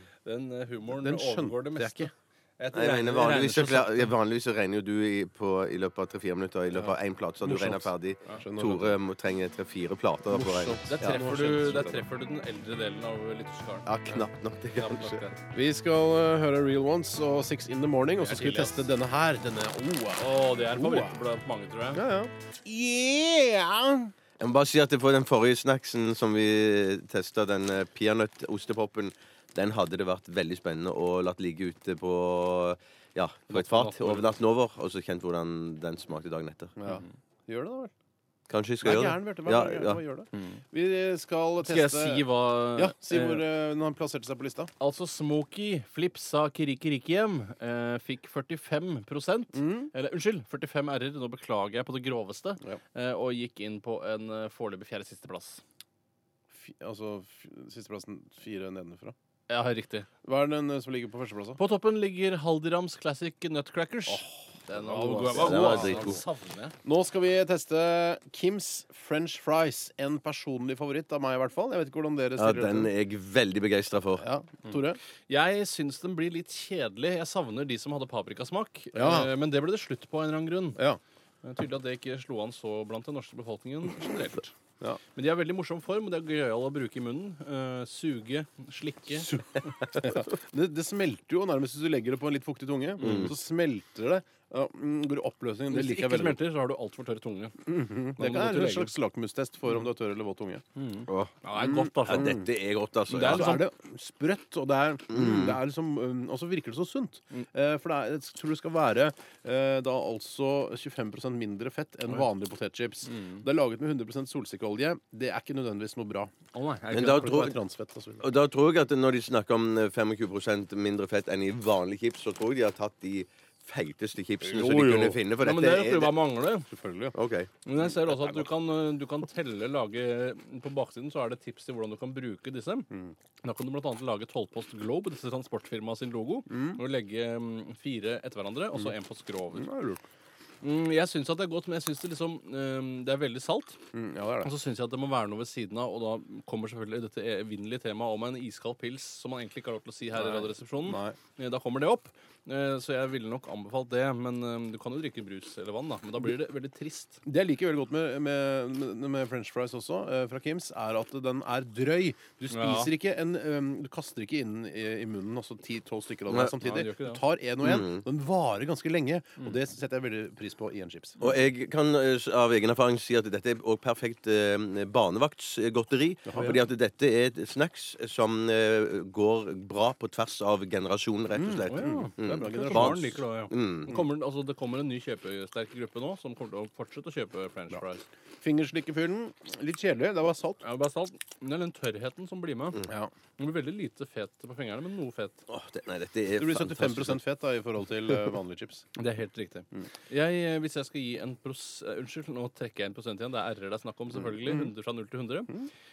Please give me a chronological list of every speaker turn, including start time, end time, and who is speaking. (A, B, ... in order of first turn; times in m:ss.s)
0:00.2-0:04.1 A
0:00.9-0:02.1 B
0:02.7-0:11.2 C
0:06.7-0:09.0 B
0:10.3-0:12.0 B
0:10.9-0:13.9 A
0:13.9-0:15.2 C
0:14.8-0:15.4 A
0:15.5-0:21.2 B
0:18.2-0:18.8 A
0:20.2-0:22.0 A
0:21.9-0:24.1 B
0:24.4-0:36.7 C
0:33.5-0:34.3 A
0:36.8-0:37.9 B
0:38.5-0:40.0 C
0:38.8-0:44.7 B
0:41.6-0:43.5 A
0:44.8-0:55.6 A
0:49.6-0:49.9 B
0:56.6-0:59.2 B
0:59.5-1:00.1 A
1:00.2-1:01.6 B
1:01.6-1:06.8 A
1:04.1-1:06.2 B
1:05.3-1:06.2 C
1:06.8-1:12.9 B
1:12.4-1:14.2 C
1:14.2-1:15.0 B
1:15.3-1:20.8 A
1:18.9-1:19.3 B
1:21.4-1:24.5 A
1:25.2-1:29.6 A
1:29.9-1:36.4 B
1:33.0-1:33.3 A
1:33.0-1:33.3 C
1:35.7-1:37.6 A
1:37.6-1:40.6 B
1:38.2-1:39.0 A
1:40.8-1:42.4 A
1:41.1-1:41.3 C
1:41.6-1:42.5 B
1:42.0-1:43.6 C
1:43.1-1:43.6 A
1:43.2-1:56.3 B
1:45.1-1:45.6 C
1:53.1-1:53.4 A
1:56.5-1:57.5 A
1:56.9-1:57.6 C
1:56.9-1:58.3 B
1:58.2-2:06.1 C
2:04.4-2:05.2 B
2:05.3-2:06.7 A
2:06.7-2:07.2 B
2:07.1-2:07.5 C
2:07.6-2:12.9 A
2:13.4-2:19.7 A
2:16.5-2:16.8 B
2:19.5-2:20.0 B
2:20.6-2:23.8 A
2:23.9-2:24.5 B
2:24.4-2:37.2 A
2:30.1-2:31.2 B
2:37.2-2:51.2 B
2:42.5-2:42.9 A
2:46.3-2:47.2 A
2:47.6-2:48.0 C
2:51.2-3:04.0 C
2:56.3-2:56.6 B
3:01.3-3:03.2 B
3:01.7-3:08.0 A
3:08.4-3:10.6 B
3:10.6-3:12.8 A
3:13.4-3:15.4 A
3:15.5-3:17.2 C
3:16.4-3:18.9 B
3:19.0-3:25.5 A
3:24.4-3:24.7 B